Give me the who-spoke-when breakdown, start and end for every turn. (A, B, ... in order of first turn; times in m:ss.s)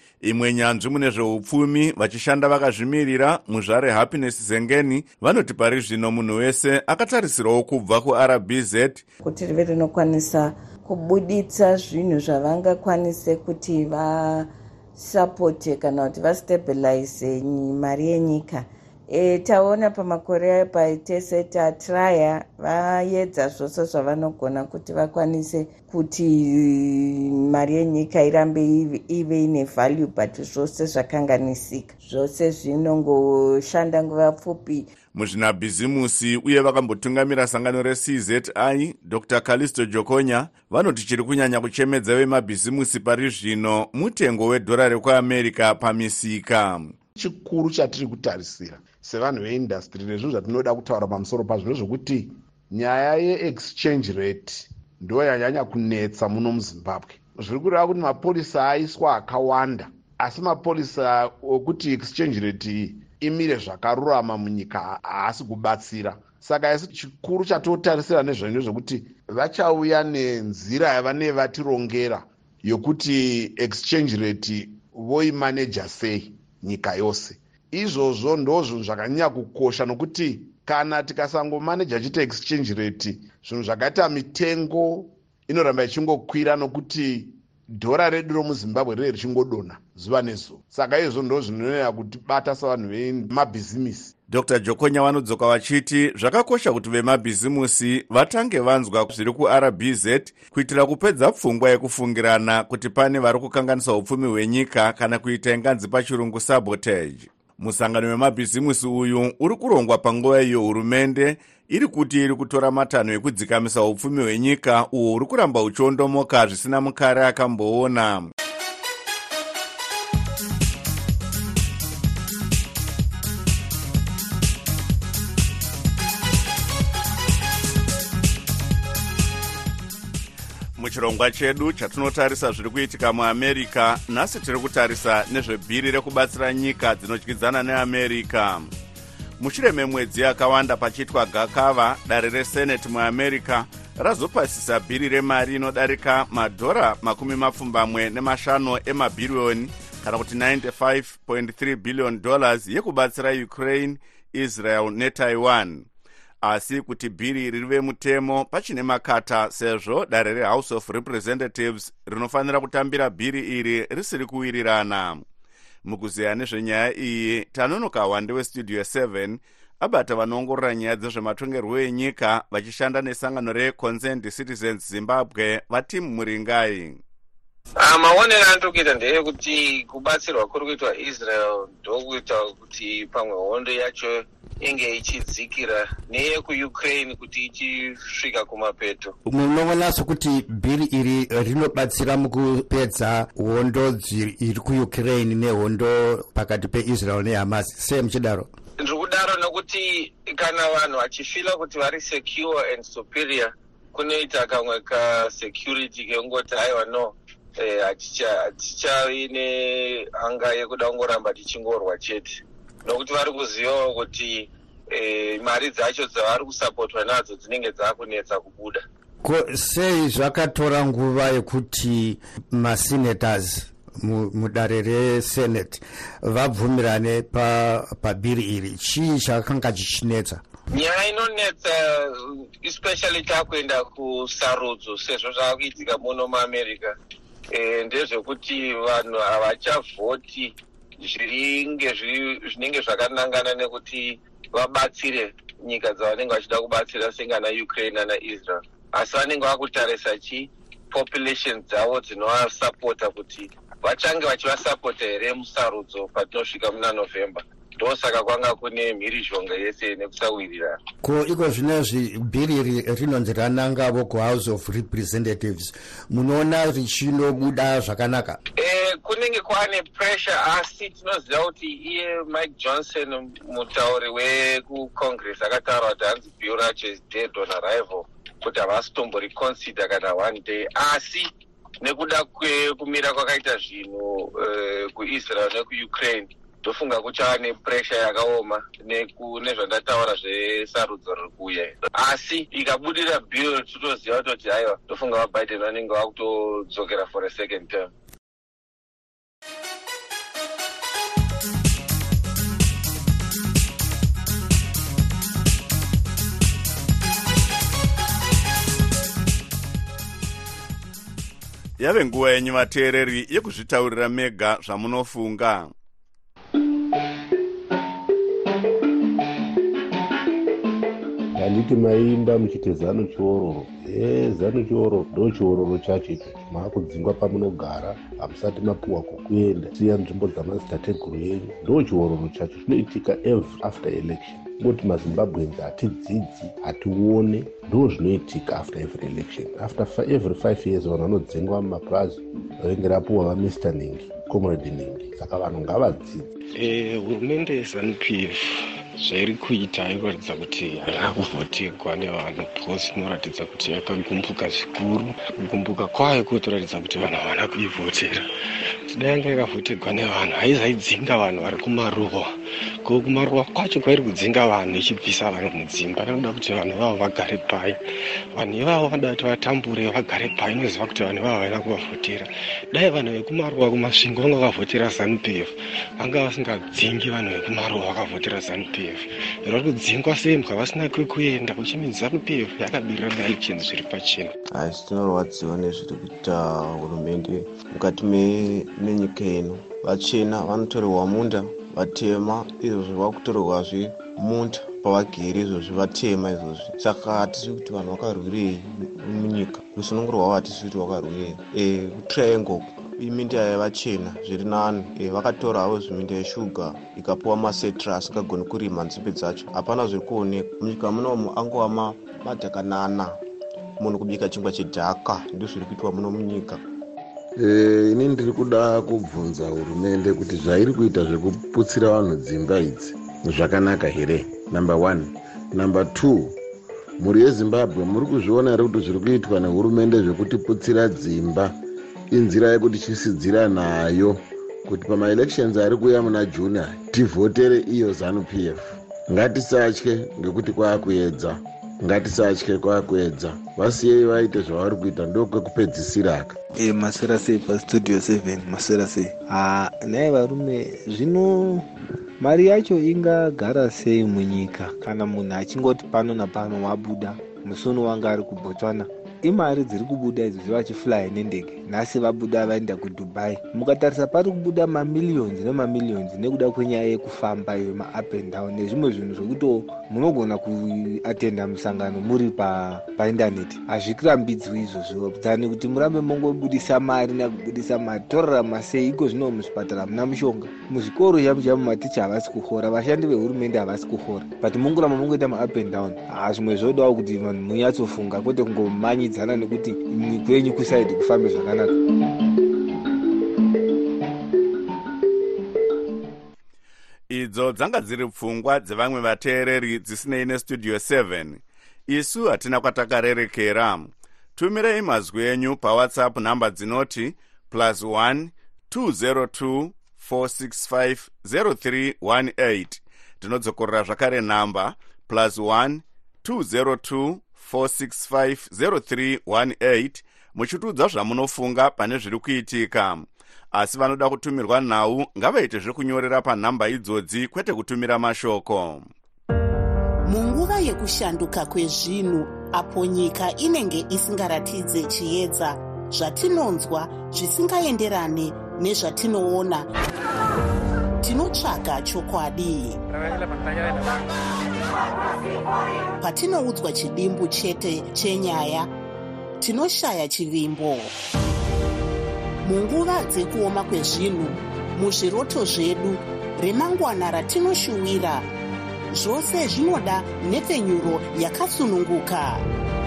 0:00.2-0:09.0 A
0:09.2-0:34.9 B
0:35.1-0:46.9 A
0:47.2-1:34.1 C
1:34.3-1:58.3 A
2:10.8-2:18.7 A
2:19.4-2:35.8 A
2:36.4-2:45.2 A
2:45.8-2:57.0 A
2:57.8-3:09.1 D
3:09.2-3:18.5 E
3:18.8-3:38.8 D
3:39.2-3:50.4 E
3:50.7-3:56.9 D
3:57.5-4:20.8 D
4:21.0-4:28.4 E
4:28.6-4:41.3 D
4:41.8-4:57.9 D
5:11.8-5:15.7 A
5:21.3-5:46.3 F
5:46.5-5:58.2 G
5:58.9-6:02.3 G
6:02.8-6:07.8 G
6:08.3-6:24.3 G
6:24.5-6:53.2 H
6:53.8-6:56.6 H
6:57.4-7:06.3 I
7:07.0-7:11.6 I
7:12.1-7:26.3 I
7:26.6-7:31.7 J
7:32.2-8:11.7 J
8:17.1-8:48.9 A
8:50.0-8:59.7 K
9:01.0-9:02.8 K
9:06.0-9:08.7 K
9:09.4-9:10.9 K
9:12.4-9:18.3 K
9:18.9-9:22.4 K